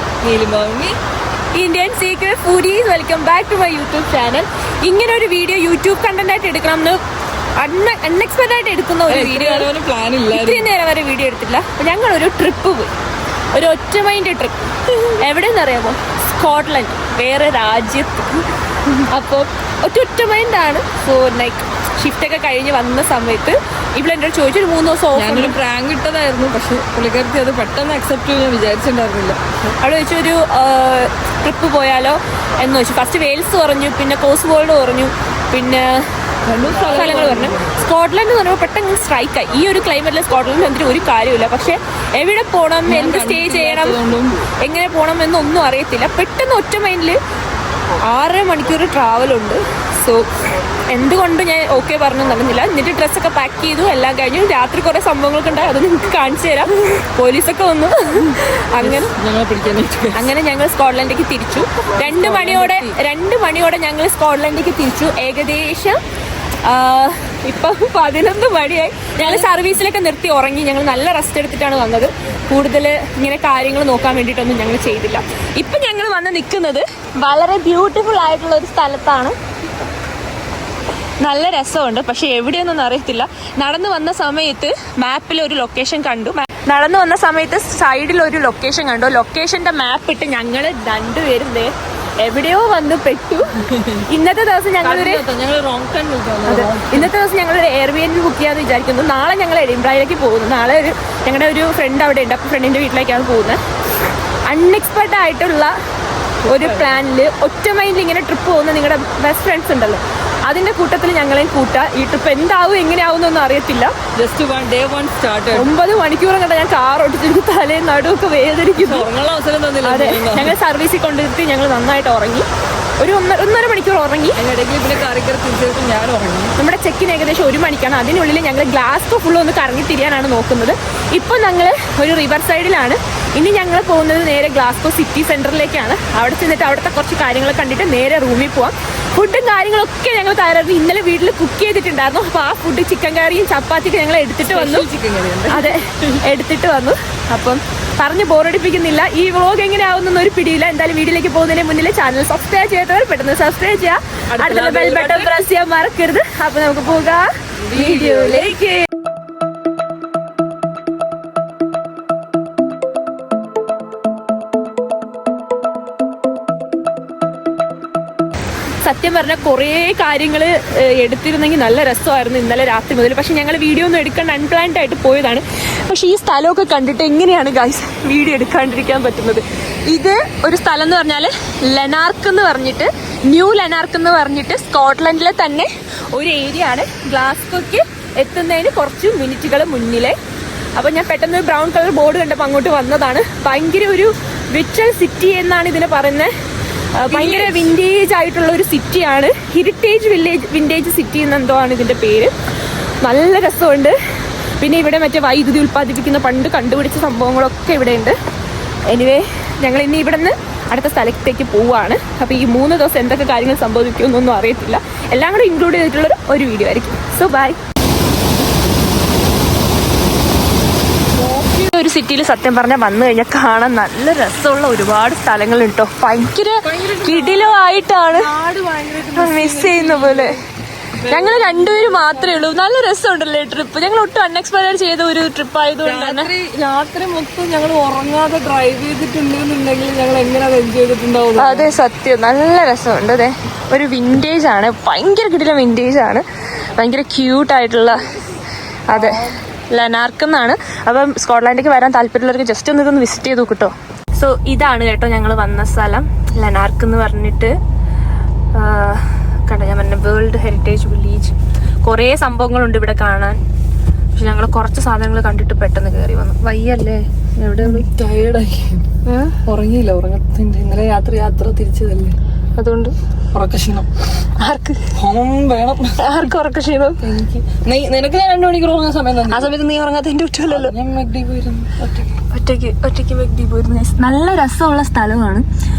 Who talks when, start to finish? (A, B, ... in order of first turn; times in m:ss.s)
0:00.2-0:01.0 A
0:01.5-0:07.0 B
0:07.6-0:09.7 B
0:09.1-0:10.7 A
0:10.3-0:12.9 B
0:13.5-0:25.6 B
0:25.1-0:29.7 A
0:29.8-0:36.0 B
0:36.5-0:37.8 A
0:36.6-0:44.0 B
0:42.8-0:44.4 A
0:44.6-0:47.2 B
0:48.0-0:49.6 B
0:50.0-0:50.3 A
0:50.9-0:59.1 B
0:58.8-1:00.3 A
1:00.1-1:06.0 B
1:01.9-1:03.0 A
1:06.6-1:19.4 B
1:09.2-1:09.6 A
1:21.2-1:35.2 B
1:33.7-1:34.0 A
1:34.8-1:37.1 A
1:36.5-1:43.6 B
1:44.5-1:45.7 B
1:46.4-1:47.0 A
1:46.4-1:53.9 B
1:54.2-1:55.7 A
1:55.5-1:59.1 B
1:58.8-2:00.6 A
1:59.8-2:02.4 B
2:03.0-2:04.4 B
2:04.4-2:06.6 A
2:06.6-2:24.9 B
2:24.4-2:26.2 A
2:25.5-2:38.9 B
2:34.3-2:35.4 A
2:37.6-2:38.6 A
2:48.8-3:10.2 B
3:10.8-3:16.3 B
3:17.0-3:22.3 B
3:17.1-3:17.7 A
3:23.0-3:24.0 B
3:24.6-3:28.2 B
3:28.9-3:37.6 B
3:41.2-3:41.5 A
3:41.3-3:48.3 B
3:46.6-3:50.4 A
3:49.2-3:50.4 B
3:51.0-3:52.5 A
3:51.1-3:56.3 B
3:55.8-4:01.7 A
4:01.4-4:06.2 B
4:06.7-4:08.1 B
4:08.9-4:17.6 B
4:08.9-4:09.4 A
4:18.5-4:23.4 B
4:24.2-4:27.9 B
4:27.6-4:28.8 A
4:29.0-4:29.4 B
4:29.4-4:32.2 A
4:32.6-4:32.9 B
4:33.3-4:33.9 A
4:34.4-4:34.9 B
4:34.9-4:36.0 A
4:36.0-4:37.0 B
4:37.0-4:39.6 A
4:39.3-4:40.7 B
4:40.5-4:42.2 A
4:42.3-4:45.4 B